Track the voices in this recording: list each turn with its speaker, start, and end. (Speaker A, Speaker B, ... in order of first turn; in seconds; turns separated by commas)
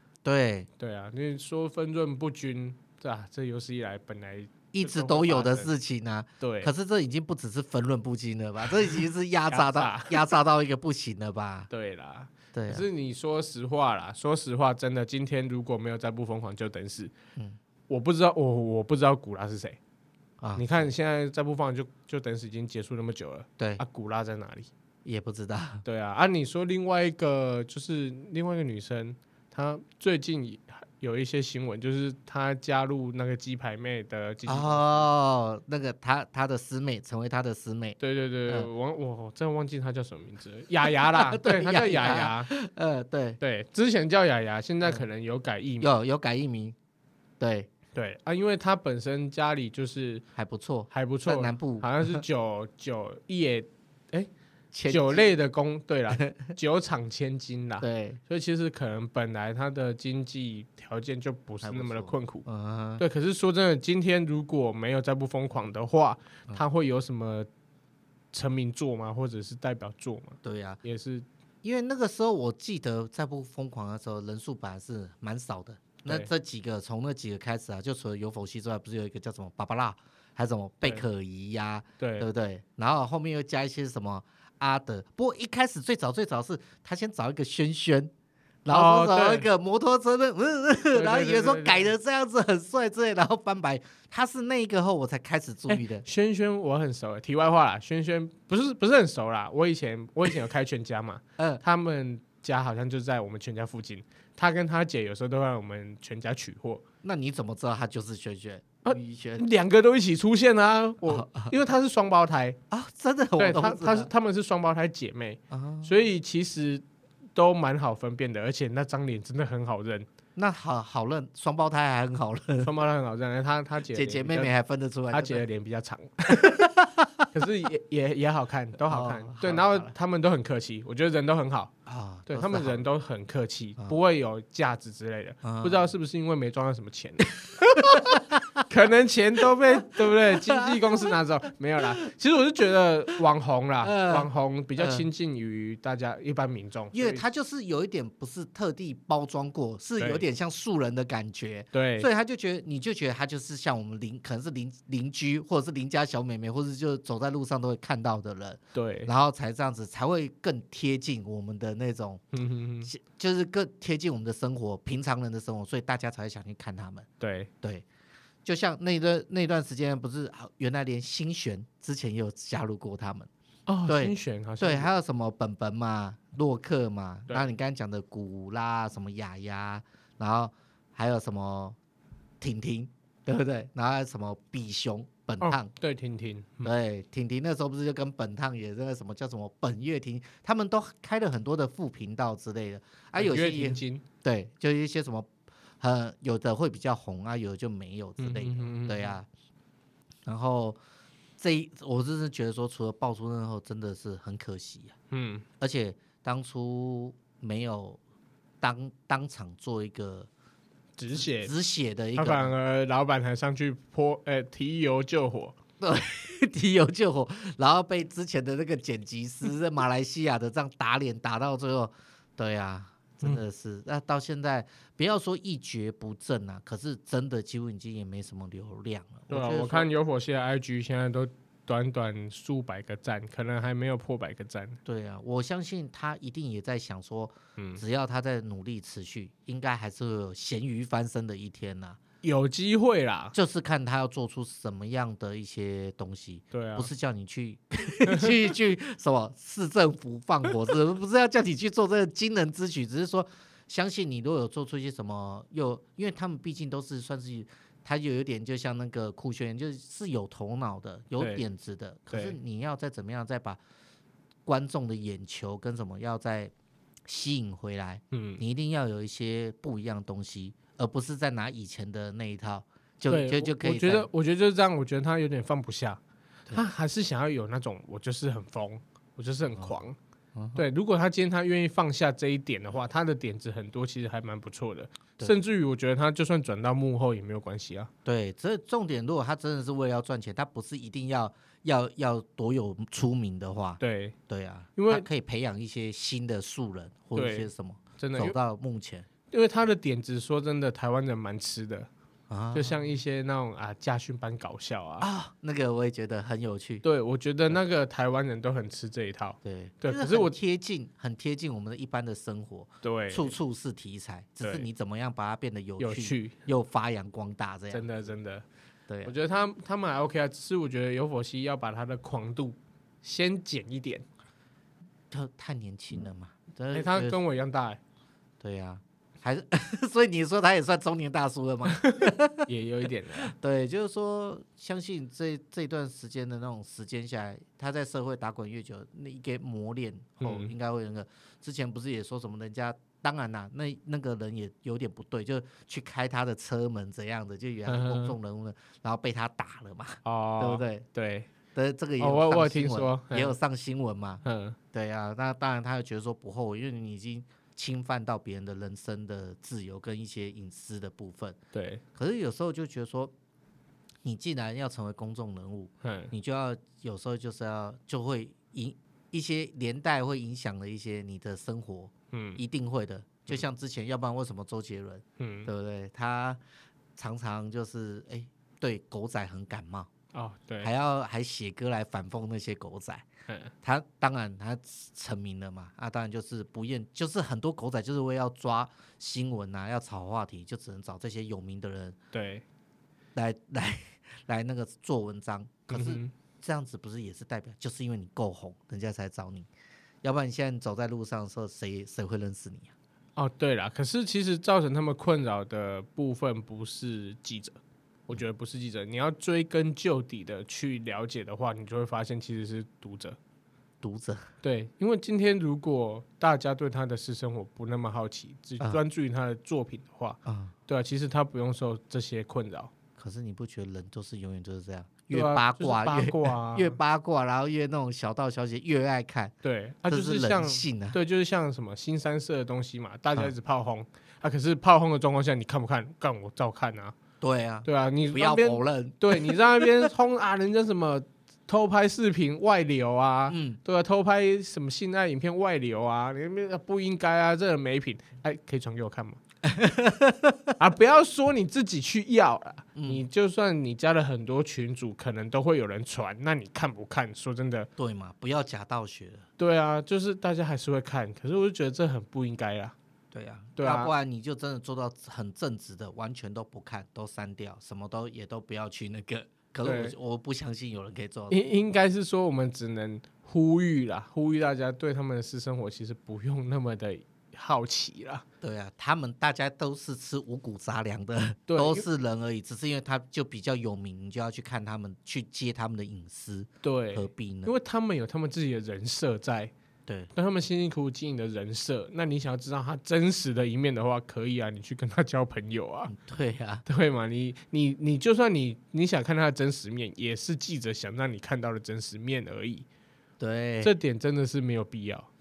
Speaker A: 0.2-0.7, Speaker B: 0.8-5.7, Speaker A: 4.7-11.7, Speaker B: 6.4-6.7, Speaker B: 9.5-10.2, Speaker B: 11.7-17.1, Speaker A: 12.5-12.8, Speaker B: 17.9-19.8, Speaker A: 20.4-20.9, Speaker B: 20.6-24.7, Speaker A: 25.0-25.8, Speaker B: 25.8-35.1, Speaker A: 34.5-38.7, Speaker B: 38.0-42.5, Speaker A: 40.8-43.4, Speaker B: 43.4-45.9, Speaker A: 45.8-46.8, Speaker A: 47.4-47.7, Speaker B: 47.9-50.2, Speaker A: 50.4-52.2, Speaker B: 50.9-54.3, Speaker A: 54.7-55.2, Speaker B: 54.9-62.4, Speaker A: 56.2-56.5, Speaker A: 57.8-58.2, Speaker A: 61.6-63.0, Speaker B: 63.0-67.5, Speaker B: 68.3-71.2, Speaker A: 70.4-70.8, Speaker A: 71.6-88.1, Speaker B: 82.0-82.3, Speaker A: 88.6-96.0, Speaker B: 88.7-89.5, Speaker B: 90.9-91.9, Speaker B: 95.7-106.8, Speaker A: 107.0-109.5, Speaker B: 108.8-112.6, Speaker A: 111.0-111.5, Speaker A: 112.7-114.1, Speaker B: 113.4-120.1, Speaker A: 115.5-115.9, Speaker A: 120.3-122.7, Speaker B: 122.6-124.5, Speaker A: 123.9-125.4, Speaker B: 125.1-126.7, Speaker A: 126.3-127.3, Speaker B: 127.3-131.7, Speaker A: 128.9-129.9, Speaker A: 131.8-132.8, Speaker B: 132.3-147.2, Speaker A: 135.4-135.9, Speaker A: 137.7-138.6, Speaker A: 140.0-141.1, Speaker A: 143.8-145.1, Speaker A: 146.9-162.2, Speaker B: 150.0-150.2, Speaker B: 151.7-152.1, Speaker B: 158.7-159.1, Speaker B: 162.3-162.9, Speaker A: 162.9-167.1, Speaker B: 167.2-167.5, Speaker A: 168.4-173.3, Speaker B: 173.7-174.9, Speaker A: 173.9-181.8, Speaker A: 182.4-185.7, Speaker B: 185.4-186.7, Speaker A: 186.6-199.3, Speaker B: 193.2-194.0, Speaker B: 198.2-199.1, Speaker A: 200.2-200.8, Speaker A: 201.4-204.9, Speaker B: 205.1-205.4, Speaker A: 205.6-208.0, Speaker A: 208.6-210.3, Speaker B: 211.0-211.5, Speaker A: 211.1-212.6, Speaker B: 212.1-215.6, Speaker A: 215.8-229.9, Speaker B: 229.3-234.8, Speaker A: 234.8-242.0, Speaker B: 237.6-237.8, Speaker B: 242.2-243.3, Speaker A: 243.3-263.6, Speaker B: 246.5-246.9, Speaker B: 248.1-248.3, Speaker B: 262.1-262.4, Speaker A: 264.4-266.5, Speaker A: 267.1-274.1, Speaker B: 268.1-268.4, Speaker B: 273.1-276.0, Speaker B: 276.5-279.9, Speaker A: 280.3-280.6, Speaker B: 280.5-287.9, Speaker A: 288.0-299.1, Speaker B: 293.8-294.1, Speaker B: 294.8-295.1, Speaker B: 297.1-297.5, Speaker B: 298.0-298.4, Speaker B: 299.3-301.9, Speaker A: 302.3-302.9, Speaker B: 302.5-305.1, Speaker A: 305.0-306.8, Speaker B: 306.8-310.3, Speaker A: 309.4-317.9, Speaker B: 312.8-313.4, Speaker B: 315.8-316.4, Speaker B: 317.7-318.4, Speaker A: 318.9-319.1, Speaker B: 319.0-324.1, Speaker A: 325.1-327.2, Speaker B: 326.7-327.8, Speaker A: 328.4-332.5, Speaker B: 331.6-333.3, Speaker A: 333.2-350.8, Speaker B: 340.2-340.5, Speaker B: 347.7-348.1, Speaker B: 350.0-351.3, Speaker A: 351.5-361.4, Speaker B: 352.0-353.3, Speaker B: 354.2-354.6, Speaker B: 361.5-361.8, Speaker A: 361.9-363.1, Speaker A: 364.0-376.4, Speaker B: 365.8-366.1, Speaker B: 372.1-372.4, Speaker B: 375.2-375.5, Speaker A: 376.9-379.9, Speaker B: 380.1-380.7, Speaker A: 380.6-383.1, Speaker A: 383.6-391.9, Speaker B: 392.1-392.4, Speaker A: 393.1-399.5, Speaker B: 395.7-396.1, Speaker A: 400.0-402.7, Speaker B: 403.1-413.2, Speaker A: 413.8-414.2, Speaker B: 414.4-422.7, Speaker A: 420.2-420.5, Speaker A: 422.9-429.3, Speaker B: 425.1-426.8, Speaker B: 429.4-436.9, Speaker A: 429.9-431.0, Speaker A: 437.2-439.9, Speaker B: 437.6-449.2, Speaker A: 443.3-443.6, Speaker A: 449.4-450.5, Speaker B: 450.6-457.7, Speaker A: 452.8-453.1, Speaker A: 457.8-459.2, Speaker B: 459.4-462.7, Speaker A: 463.1-471.4, Speaker B: 463.6-463.9, Speaker B: 469.6-469.9, Speaker B: 471.3-478.2, Speaker A: 478.4-487.5, Speaker B: 481.5-481.8, Speaker B: 486.6-489.5, Speaker B: 490.1-495.9, Speaker A: 495.9-496.6, Speaker B: 496.6-502.6, Speaker A: 503.2-503.7, Speaker B: 503.6-505.1